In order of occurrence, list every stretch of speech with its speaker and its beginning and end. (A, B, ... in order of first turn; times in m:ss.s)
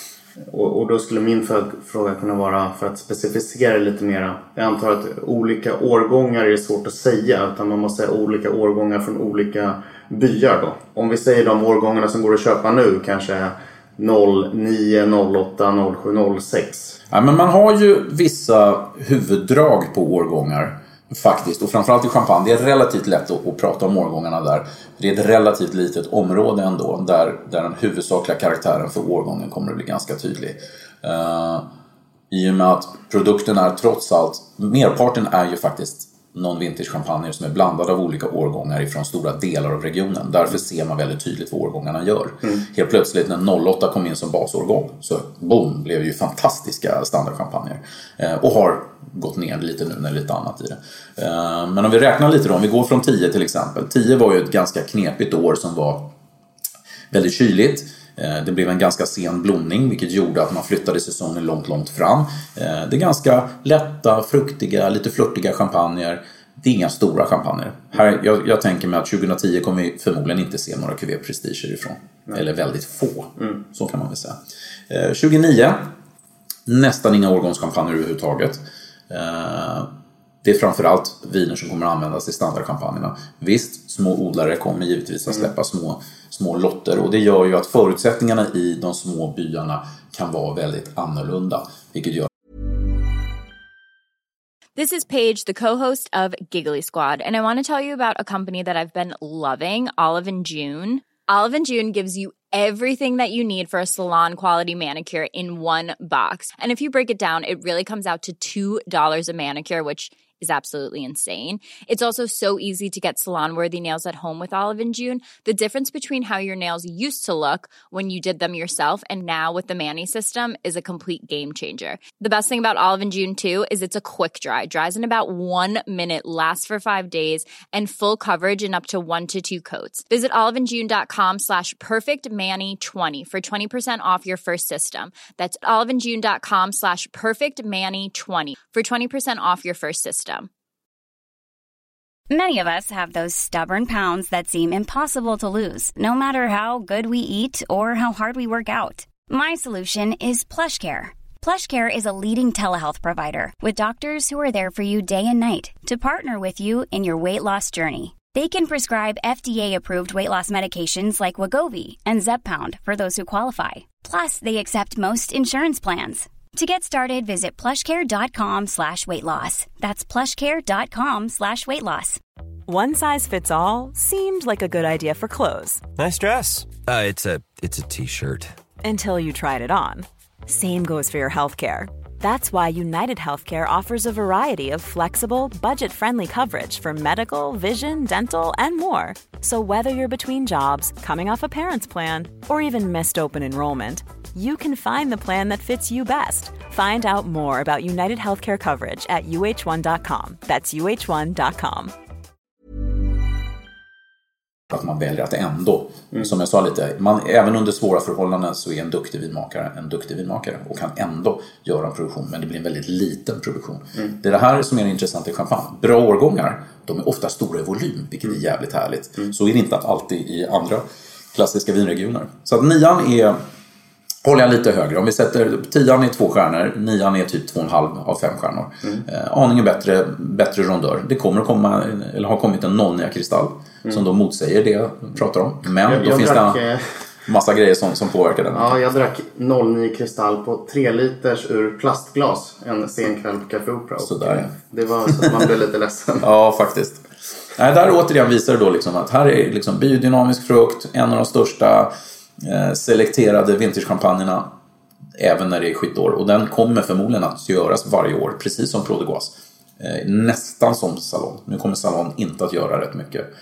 0:00.5-0:17.0 A
0:17.1-0:31.7 B
0:32.3-0:56.1 B
0:57.1-1:14.4 B
1:14.9-1:15.9 B
1:16.7-1:19.9 B
1:20.4-1:32.3 B
1:34.8-2:20.5 C
2:22.3-2:52.2 D
2:52.7-2:55.8 E
2:56.0-2:58.5 F
2:58.8-3:21.9 E
3:24.7-3:43.4 B
3:44.2-3:56.6 B
3:55.9-3:56.8 A
3:57.3-3:58.9 B
3:58.5-4:06.3 A
4:04.0-4:04.5 B
4:06.2-4:07.0 B
4:07.6-4:14.5 B
4:15.2-4:23.3 B